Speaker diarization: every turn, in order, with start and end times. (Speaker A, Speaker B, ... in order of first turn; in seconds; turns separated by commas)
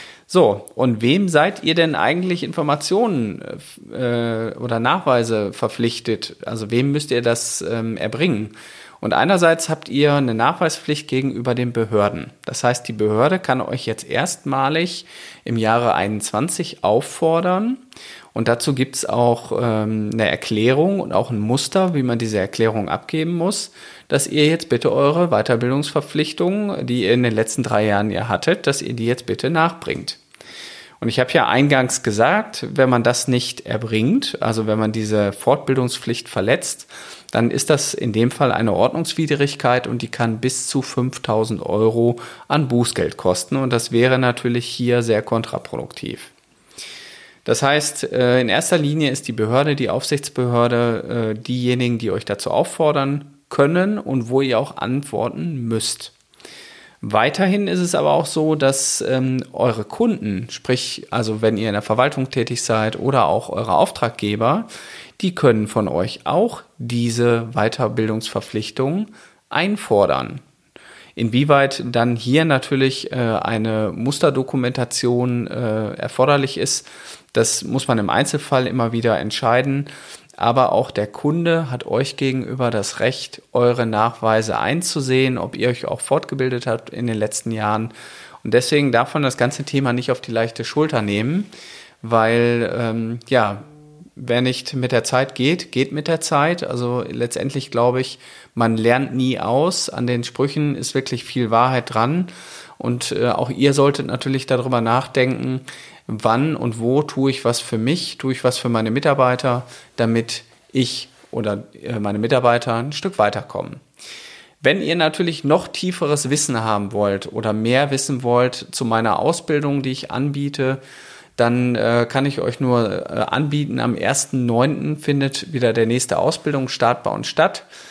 Speaker A: 0.3-17.8, Speaker A: 18.3-30.2, Speaker A: 31.0-46.3, Speaker A: 47.5-56.1, Speaker A: 57.0-64.7, Speaker A: 65.2-70.4, Speaker A: 71.2-91.5, Speaker A: 92.0-93.6, Speaker A: 94.2-113.8, Speaker A: 114.6-120.8, Speaker A: 121.4-127.7